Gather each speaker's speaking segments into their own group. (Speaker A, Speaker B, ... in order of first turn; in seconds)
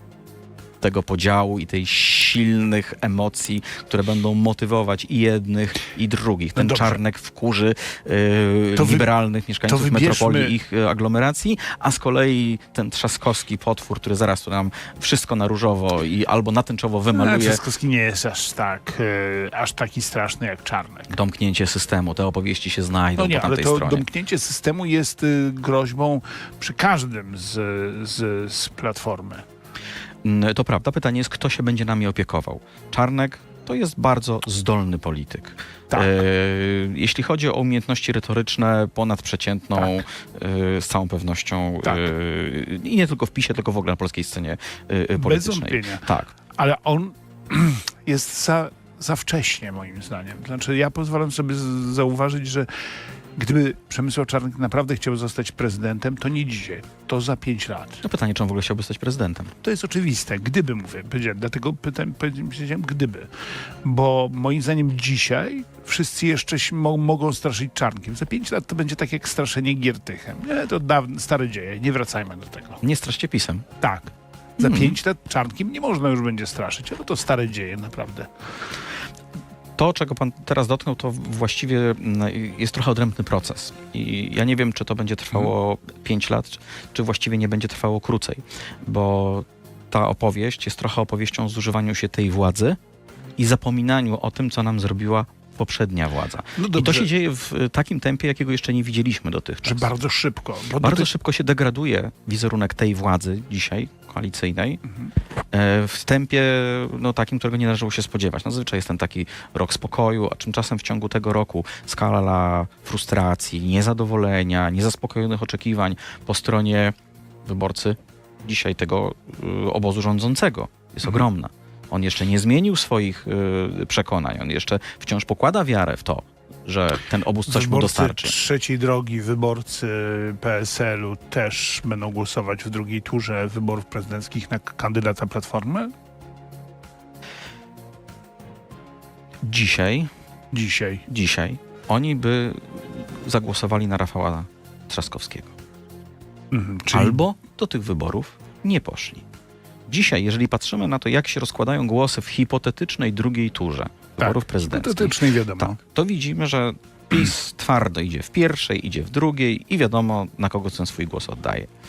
Speaker A: 0.8-17.6, 21.1-24.1, 30.2-46.3, 58.0-59.5, 72.8-73.6, 74.6-74.9, 79.8-92.8, 93.4-99.9, 100.8-104.8, 105.5-128.3, 139.4-140.1, 141.1-145.5, 146.9-149.2, 149.9-161.7
Speaker B: 6.5-7.0, 8.7-9.1, 9.7-10.5, 17.1-21.1, 23.2-29.4, 35.9-36.2, 45.2-52.7, 53.4-58.0, 59.6-63.3, 63.8-72.8, 73.8-78.3, 96.5-97.1, 99.6-101.1, 127.5-135.9, 140.5-141.0, 146.5-147.2, 154.2-155.8